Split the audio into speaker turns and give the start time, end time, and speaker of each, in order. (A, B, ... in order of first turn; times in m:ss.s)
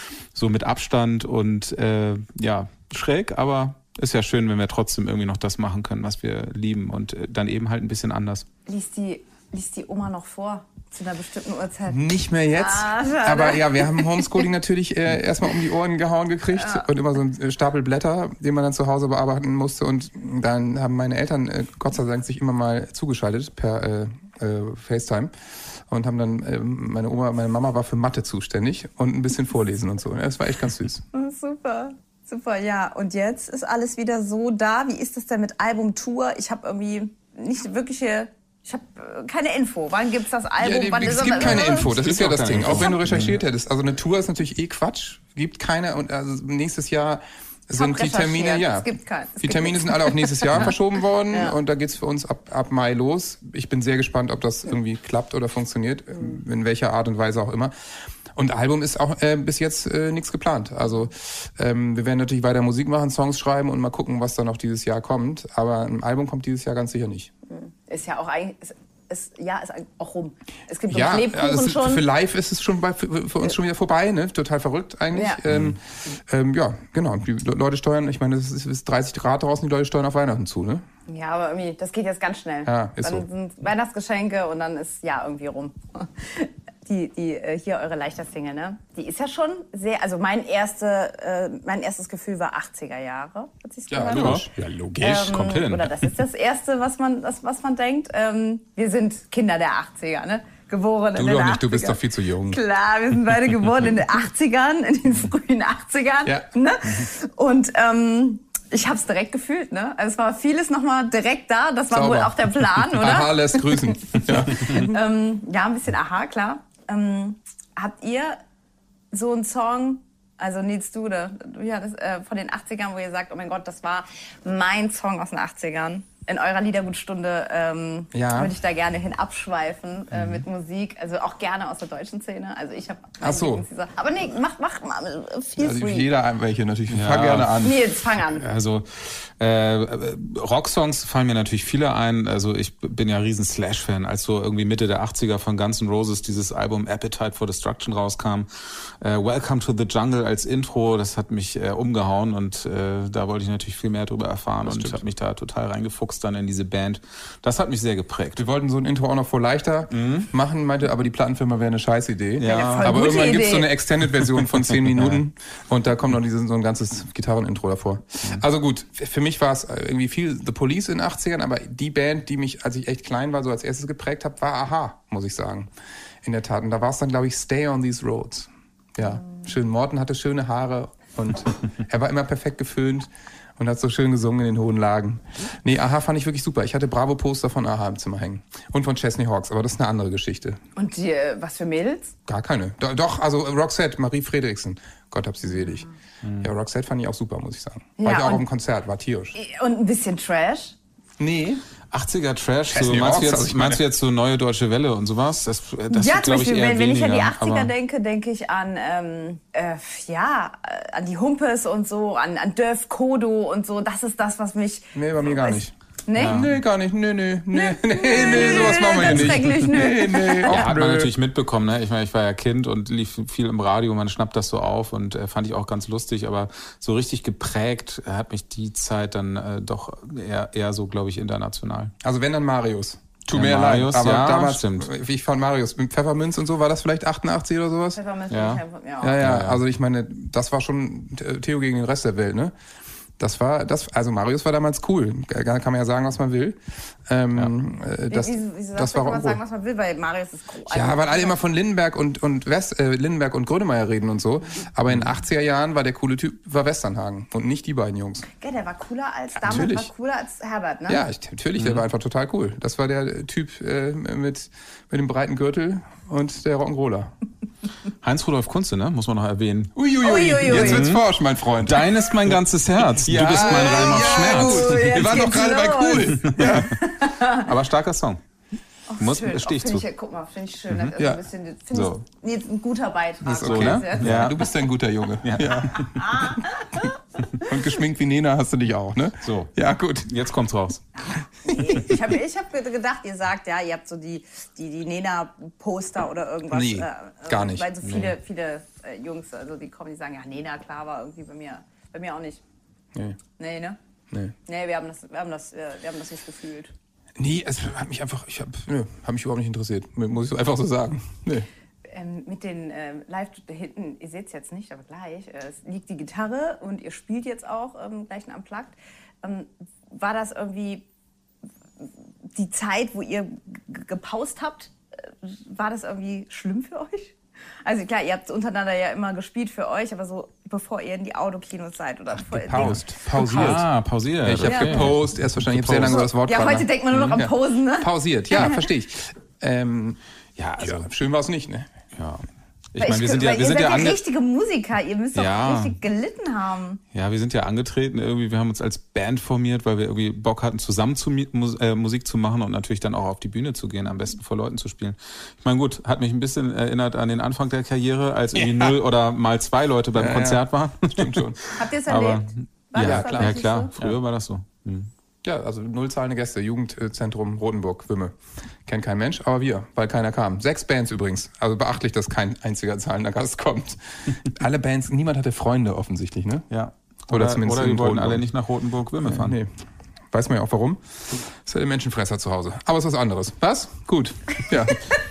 0:00.4-0:08.5 A
0:08.7-0:14.5 B
0:11.9-0:25.3 C
0:16.6-0:16.9 B
0:25.9-0:31.0 C
0:31.1-0:42.0 B
0:40.6-0:57.7 C
0:41.3-0:43.4 A
0:42.6-0:43.0 B
0:47.8-0:50.7 B
0:51.3-0:51.6 B
0:58.4-1:07.3 C
1:07.5-1:12.0 B
1:10.9-1:20.8 C
1:15.1-1:15.4 B
1:21.1-1:34.4 B
1:22.7-1:23.2 C
1:33.9-1:34.5 C
1:34.1-1:36.1 A
1:35.0-1:58.4 B
1:41.2-1:42.6 C
1:51.9-1:54.9 C
1:59.1-2:16.1 B
2:08.1-2:08.5 C
2:10.1-2:10.4 A
2:13.2-2:13.6 C
2:15.6-2:17.8 C
2:16.9-2:17.7 A
2:17.6-2:18.4 B
2:18.3-2:38.4 A
2:34.6-2:35.0 C
2:38.4-2:55.7 C
2:39.9-2:40.3 A
2:42.4-2:43.1 A
2:42.4-2:43.7 B
2:44.8-2:45.2 A
2:56.2-3:10.6 C
3:10.8-3:12.2 B
3:12.3-3:15.9 C
3:16.4-3:19.4 C
3:18.0-3:18.4 B
3:19.4-3:20.8 B
3:21.2-3:21.6 C
3:21.9-3:27.7 A
3:22.7-3:23.8 C
3:25.9-3:36.5 B
3:35.0-3:41.1 C
3:36.2-3:36.5 A
3:37.5-3:40.6 B
3:38.3-3:39.7 A
3:40.4-3:51.9 A
3:52.0-3:58.0 C
3:53.3-3:54.9 A
3:58.0-3:59.2 B
3:58.3-3:58.6 A
3:59.0-4:02.5 C
3:59.2-3:59.6 A
4:03.2-4:09.4 C
4:08.1-4:11.4 B
4:10.7-4:18.3 C
4:18.4-4:21.0 B
4:19.4-4:19.9 C
4:20.9-4:27.1 C
4:21.6-4:21.8 A
4:28.0-4:29.8 A
4:29.8-4:36.7 C
4:30.0-4:30.9 B
4:30.5-4:31.1 A
4:31.6-4:35.2 A
4:33.4-4:37.5 B
4:36.2-4:38.2 A
4:38.9-4:44.4 B
4:39.0-4:39.8 A
4:41.0-4:41.2 C
4:41.7-4:42.0 A
4:43.2-4:46.1 C
4:43.3-4:44.4 A
4:45.2-4:46.0 A
4:45.7-4:46.9 B
4:47.4-4:50.2 C
4:49.2-4:49.5 A
4:50.0-4:50.8 A
4:51.0-5:02.4 B
4:56.5-4:57.7 C
4:57.8-4:58.2 A
5:03.4-5:03.8 B
5:04.5-5:06.7 B
5:07.2-5:11.5 C
5:11.9-5:20.8 B
5:21.8-5:32.8 B
5:32.2-5:33.7 C
5:32.6-5:36.1 A
5:34.2-5:40.0 C
5:34.4-5:34.9 B
5:35.8-5:38.7 B
5:40.4-5:40.8 A
5:40.6-5:41.7 C
5:42.0-5:44.0 A
5:42.8-5:46.8 B
5:45.2-5:45.8 A
5:46.9-6:01.3 A
6:00.0-6:01.4 C
6:01.5-6:03.7 B
6:01.9-6:04.9 A
6:02.8-6:04.0 C
6:05.2-6:08.1 C
6:08.7-6:16.5 C
6:16.5-6:19.4 A
6:17.1-6:18.3 C
6:19.0-6:19.5 C
6:20.1-6:24.8 C